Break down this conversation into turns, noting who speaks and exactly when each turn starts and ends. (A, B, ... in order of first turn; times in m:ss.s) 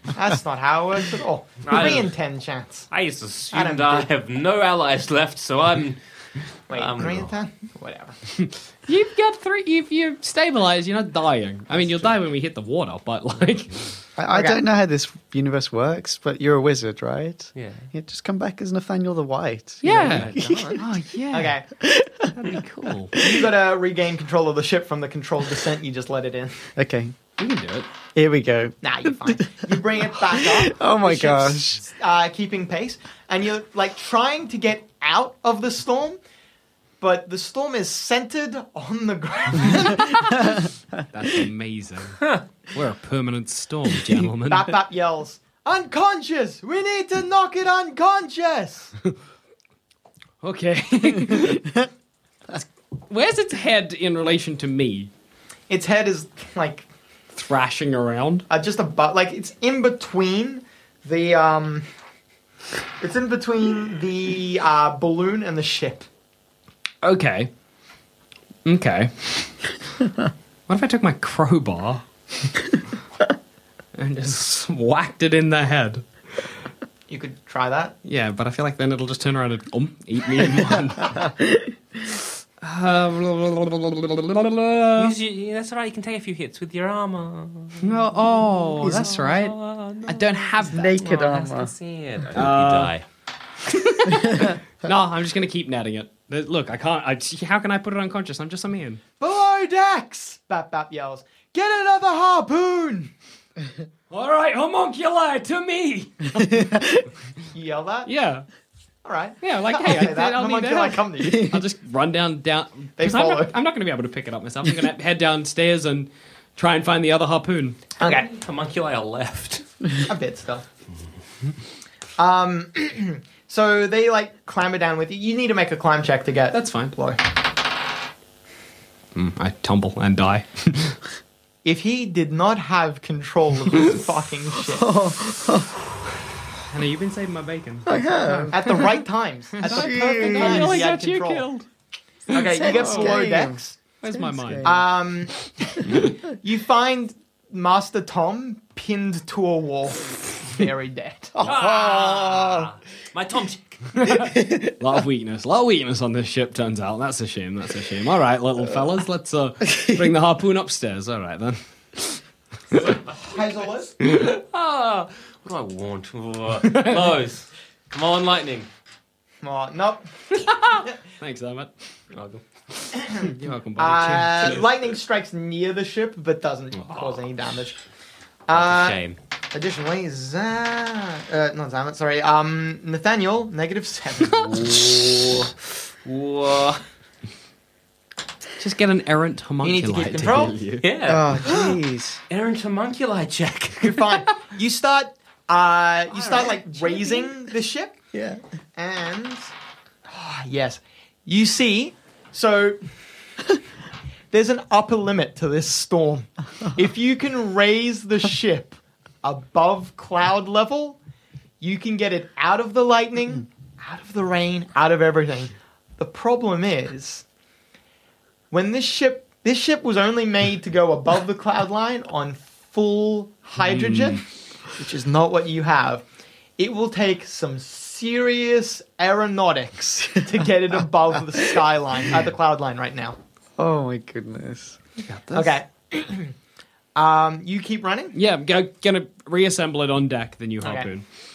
0:00.1-0:02.9 A
0:01.6-0:02.2 B
0:02.9-0:06.0 B
0:03.5-0:04.1 A
0:06.7-0:08.2 A
0:06.7-0:07.3 B
0:08.9-0:13.9 C
0:14.2-0:20.9 D
0:14.3-0:14.6 A
0:17.5-0:17.8 B
0:19.8-0:21.6 C
0:19.9-0:20.8 B
0:21.3-0:21.6 A
0:21.8-0:22.6 D
0:22.4-0:23.1 C
0:23.2-0:26.6 A
0:23.2-0:23.4 D
0:26.8-0:27.1 D
0:27.4-0:27.9 C
0:28.1-0:31.8 D
0:28.8-0:36.2 A
0:37.0-0:40.6 A
0:41.1-0:42.2 C
0:42.7-0:44.7 C
0:44.4-0:48.9 A
0:50.4-0:51.8 C
0:51.4-0:51.6 D
0:53.1-0:55.1 C
0:55.7-0:56.8 A
0:57.3-0:58.5 C
0:58.5-1:01.8 A
1:03.0-1:06.1 A
1:07.0-1:07.5 C
1:08.6-1:09.6 C
1:10.7-1:12.0 C
1:13.9-1:16.0 C
1:17.1-1:18.0 A
1:18.0-1:21.3 C
1:22.6-1:25.1 C
1:25.0-1:27.8 B
1:27.8-1:31.0 C
1:28.8-1:29.3 D
1:29.2-1:33.0 B
1:30.6-1:31.7 D
1:32.3-1:33.0 C
1:33.8-1:39.0 C
1:39.2-1:43.1 A
1:44.1-1:46.7 C
1:46.5-1:47.0 D
1:47.5-1:48.1 A
1:48.0-1:48.4 C
1:49.0-1:51.6 A
1:49.4-1:57.8 C
1:51.2-1:51.6 D
1:53.0-1:53.5 A
1:58.0-1:58.3 A
1:58.0-1:59.6 B
2:00.0-2:00.6 A
2:02.2-2:07.2 A
2:06.5-2:07.0 C
2:09.1-2:11.0 C
2:11.6-2:14.9 A
2:14.7-2:15.7 D
2:16.7-2:18.9 C
2:17.8-2:18.9 D
2:18.5-2:21.5 A
2:19.6-2:21.7 C
2:19.6-2:20.8 D
2:22.3-2:23.4 C
2:22.3-2:23.8 A
2:22.6-2:23.6 D
2:24.0-2:24.8 C
2:24.2-2:24.8 D
2:24.6-2:31.4 A
2:31.3-2:32.7 D
2:31.4-2:33.9 B
2:34.0-2:42.2 C
2:34.1-2:34.7 D
2:42.9-2:43.9 A
2:44.2-2:48.7 B
2:49.4-2:50.0 A
2:50.4-2:51.7 C
2:52.1-2:52.4 B
2:52.8-2:54.7 C
2:53.0-2:57.8 A
2:56.8-2:57.2 B
2:58.5-2:59.0 A
2:58.5-2:59.2 B
2:59.5-3:05.0 A
3:04.6-3:05.4 B
3:06.0-3:06.8 B
3:08.6-3:10.9 C
3:09.6-3:10.6 A
3:10.8-3:11.8 B
3:11.0-3:12.2 D
3:12.3-3:14.1 B
3:13.8-3:18.0 A
3:16.1-3:17.2 B
3:18.1-3:18.4 D
3:18.7-3:19.5 A
3:20.1-3:22.8 A
3:24.3-3:31.0 A
3:31.6-3:37.2 A
3:38.5-3:44.2 A
3:43.6-3:44.2 C
3:44.8-3:46.0 A
3:46.6-3:53.2 A
3:53.6-3:54.8 D
3:55.1-3:55.5 C
3:55.3-3:56.3 A
3:56.9-3:58.2 A
3:58.1-4:01.0 C
4:00.6-4:00.9 A